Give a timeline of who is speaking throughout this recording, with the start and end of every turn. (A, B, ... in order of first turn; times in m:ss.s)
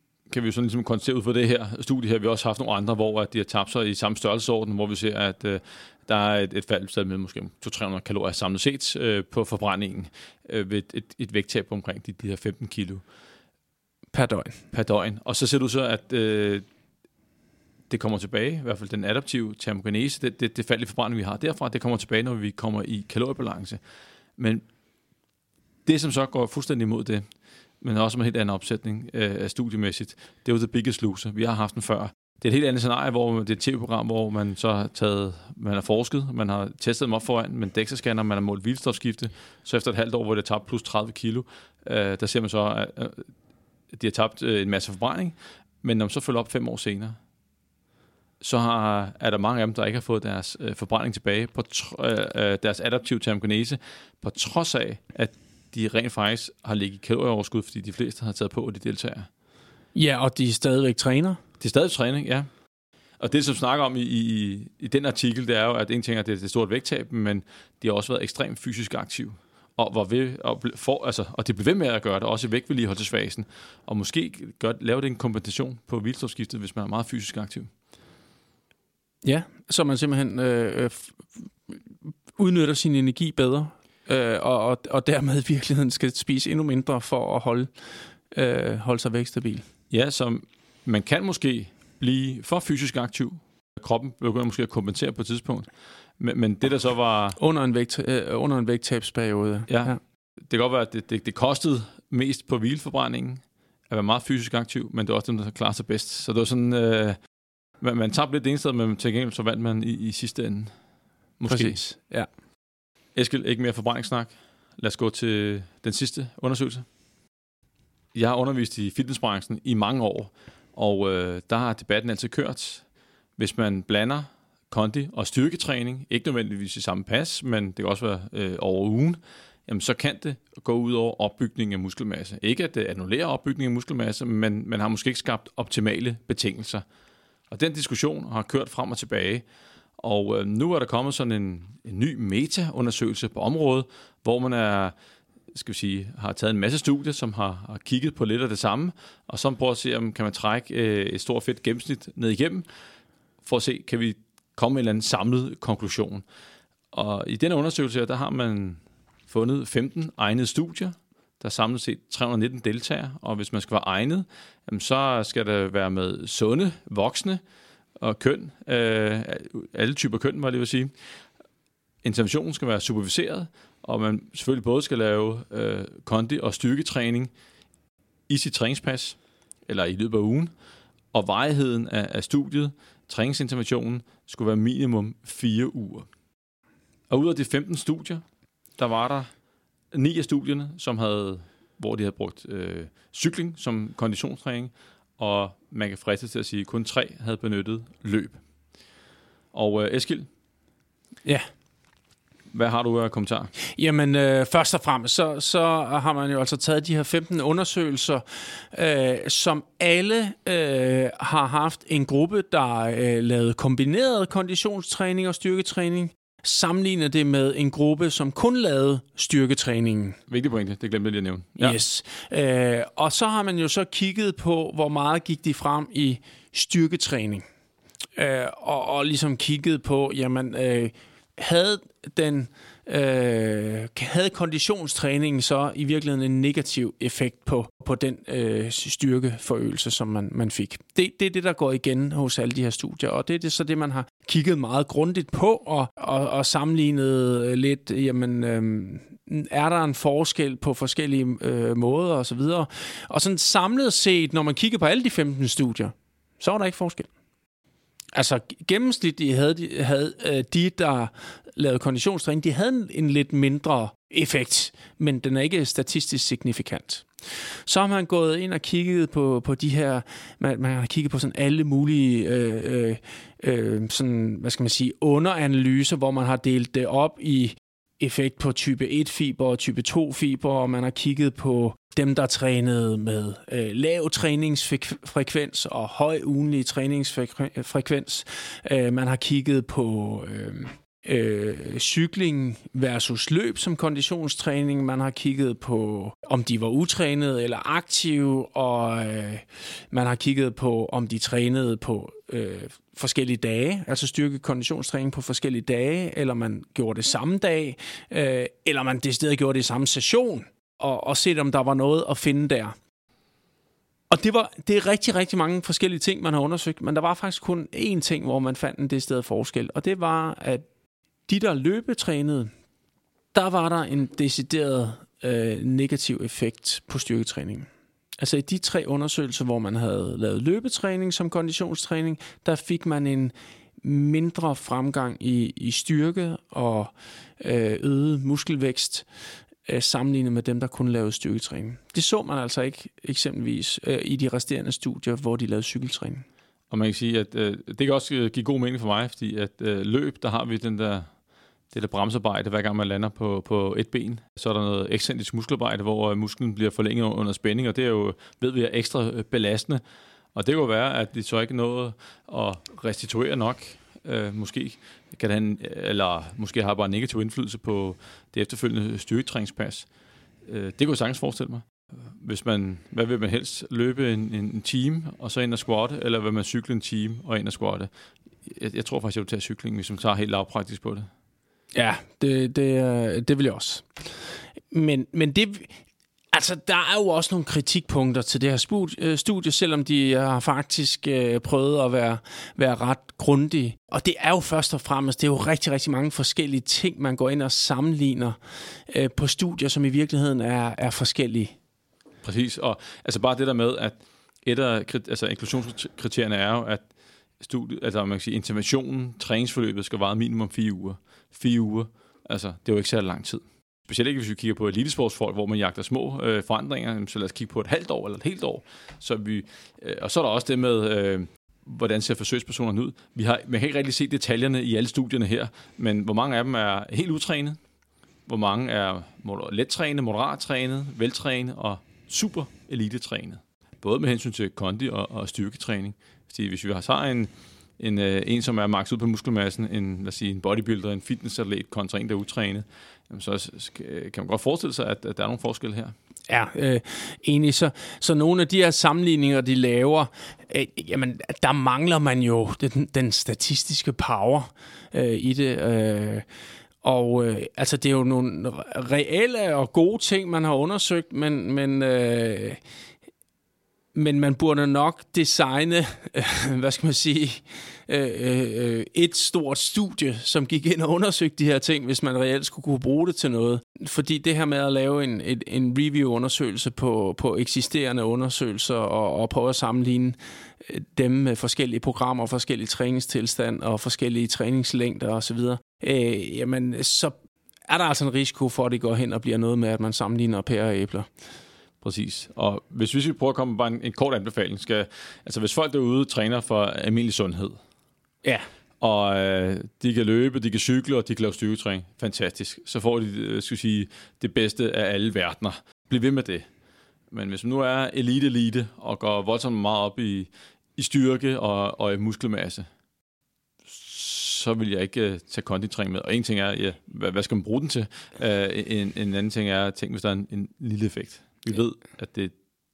0:00.3-0:13.0 A
0:14.1-0:14.6 B
0:14.7-0:16.6 A
0:17.9-0:23.8 A
0:24.4-0:24.6 A
0:25.9-0:27.2 A
0:27.8-0:43.3 A
0:43.9-0:47.2 A
0:48.4-0:59.3 A
1:00.0-1:01.4 B
1:01.6-1:02.5 A
1:03.2-1:17.7 A
1:19.2-1:27.7 B
1:28.3-1:29.6 B
1:29.9-1:37.4 A
1:37.4-1:40.0 B
1:39.7-1:39.9 A
1:40.5-1:47.2 A
1:47.8-1:50.7 A
1:51.4-1:51.8 A
1:51.5-1:52.3 B
1:53.2-1:56.8 A
1:58.1-2:02.8 A
2:03.4-2:16.8 A
2:17.5-2:19.4 A
2:20.0-2:24.9 A
2:25.5-2:32.7 A
2:33.4-2:36.2 A
2:36.9-2:47.4 A
2:48.0-2:50.9 A
2:52.0-2:57.3 A
2:58.3-3:00.5 A
3:01.1-3:06.1 A
3:07.1-3:08.2 A
3:08.8-3:09.3 A
3:09.9-3:18.4 A
3:19.5-3:20.3 A
3:22.5-3:23.5 A
3:23.6-3:40.2 B
3:40.3-3:41.8 A
3:41.6-3:47.4 B
3:48.2-4:17.1 B
4:18.1-5:12.8 B
5:14.1-5:20.6 B
5:21.3-5:22.5 B
5:23.3-5:27.7 B
5:28.2-5:39.1 B
5:39.6-5:46.2 B
5:46.7-5:51.1 A
5:51.7-5:59.8 A
6:00.4-6:09.9 A
6:10.5-6:17.9 A
6:18.4-6:21.1 A
6:21.7-6:25.8 B
6:26.3-6:41.6 B
6:42.2-6:46.8 A
6:47.4-7:07.6 A
7:08.3-7:25.9 A
7:26.3-7:36.2 B
7:36.8-7:42.6 B
7:43.9-8:07.1 B
8:07.7-8:11.1 B
8:11.8-8:17.6 A
8:18.8-8:26.5 A
8:27.1-8:32.7 A
8:33.7-8:42.3 A